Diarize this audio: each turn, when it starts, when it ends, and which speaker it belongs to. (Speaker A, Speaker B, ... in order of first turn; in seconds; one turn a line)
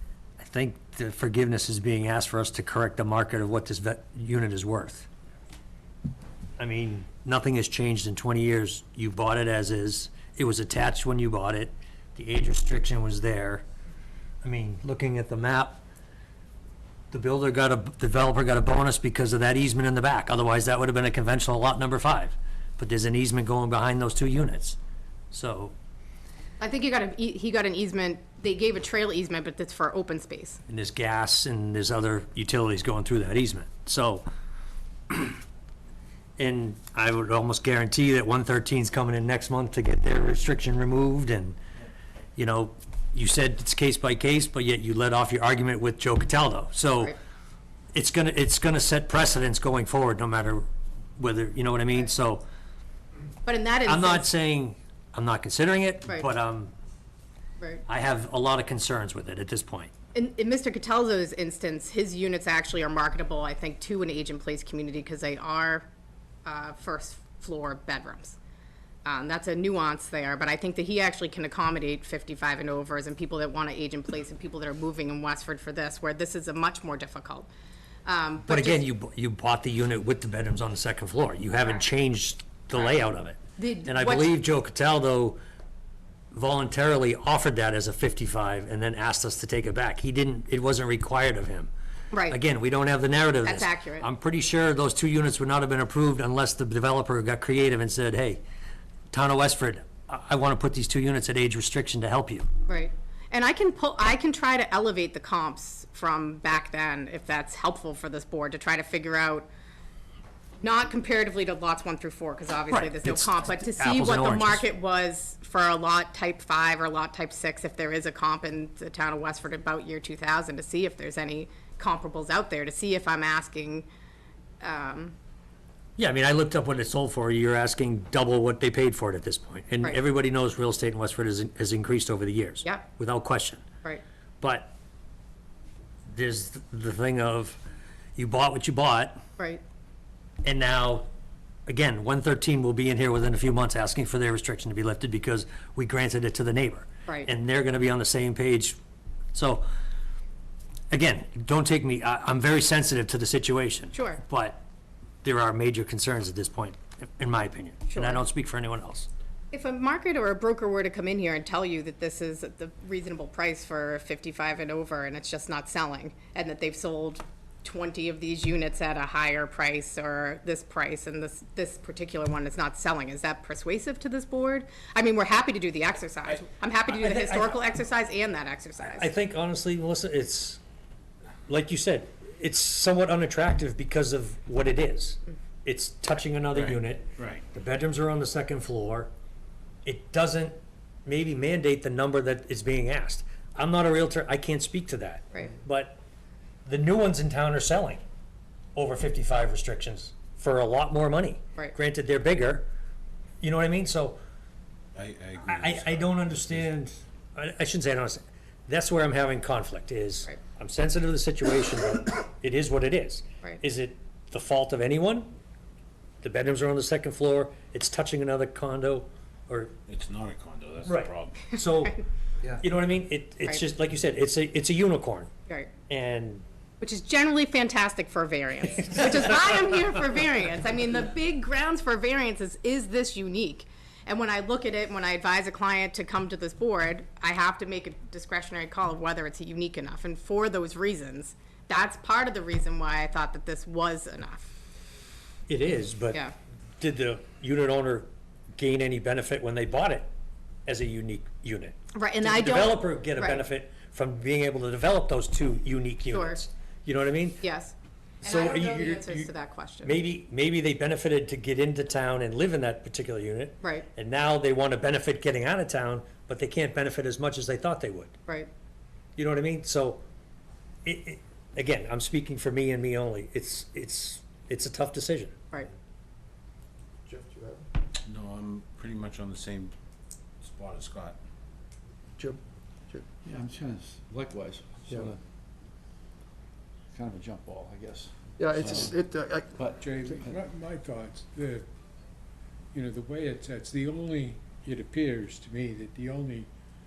Speaker A: 0.4-5.1
Speaker A: 6.6-13.6
Speaker A: 14.4-15.8
Speaker A: 17.1-24.8
Speaker A: 25.3-25.7
Speaker B: 26.6-30.6
Speaker A: 30.7-34.3
Speaker A: 35.1-35.4
Speaker A: 36.4-41.6
Speaker A: 42.4-47.2
Speaker A: 47.9-50.7
Speaker A: 51.2-52.4
Speaker B: 53.5-54.3
Speaker A: 53.9-56.7
Speaker B: 57.6-57.9
Speaker A: 57.9-59.9
Speaker B: 60.1-65.9
Speaker B: 66.5-68.4
Speaker B: 69.1-77.5
Speaker B: 78.1-78.8
Speaker A: 78.5-85.4
Speaker B: 83.6-84.3
Speaker A: 86.3-91.7
Speaker B: 92.1-92.4
Speaker A: 92.3-98.4
Speaker B: 93.4-94.1
Speaker A: 99.1-102.5
Speaker B: 102.7-109.5
Speaker B: 110.6-123.9
Speaker A: 112.7-114.6
Speaker B: 124.6-125.2
Speaker A: 126.0-133.6
Speaker A: 134.4-134.7
Speaker A: 136.1-137.6
Speaker A: 138.2-139.2
Speaker A: 140.4-141.1
Speaker A: 141.7-148.8
Speaker A: 149.3-149.7
Speaker A: 150.9-154.6
Speaker B: 153.9-154.2
Speaker A: 155.2-159.1
Speaker B: 157.9-158.2
Speaker B: 159.5-179.1
Speaker A: 176.9-177.6
Speaker A: 178.8-180.6
Speaker A: 181.5-189.1
Speaker C: 186.6-187.4
Speaker A: 189.8-196.0
Speaker A: 196.7-198.0
Speaker A: 198.8-202.7
Speaker A: 203.4-204.2
Speaker C: 205.0-206.7
Speaker A: 205.4-215.4
Speaker A: 216.2-219.7
Speaker C: 219.9-221.5
Speaker A: 220.8-225.3
Speaker A: 225.9-226.4
Speaker B: 226.8-244.6
Speaker A: 245.5-246.2
Speaker A: 246.8-250.1
Speaker A: 250.7-257.4
Speaker B: 251.9-253.4
Speaker B: 256.1-256.4
Speaker B: 257.4-260.0
Speaker A: 258.2-259.3
Speaker A: 259.8-268.1
Speaker B: 263.6-263.9
Speaker A: 269.2-270.0
Speaker A: 270.9-275.4
Speaker D: 277.1-277.7
Speaker C: 278.0-279.7
Speaker C: 280.4-281.2
Speaker D: 282.2-283.2
Speaker E: 283.2-285.2
Speaker E: 286.9-290.4
Speaker D: 288.4-289.6
Speaker F: 289.8-291.7
Speaker F: 292.7-296.5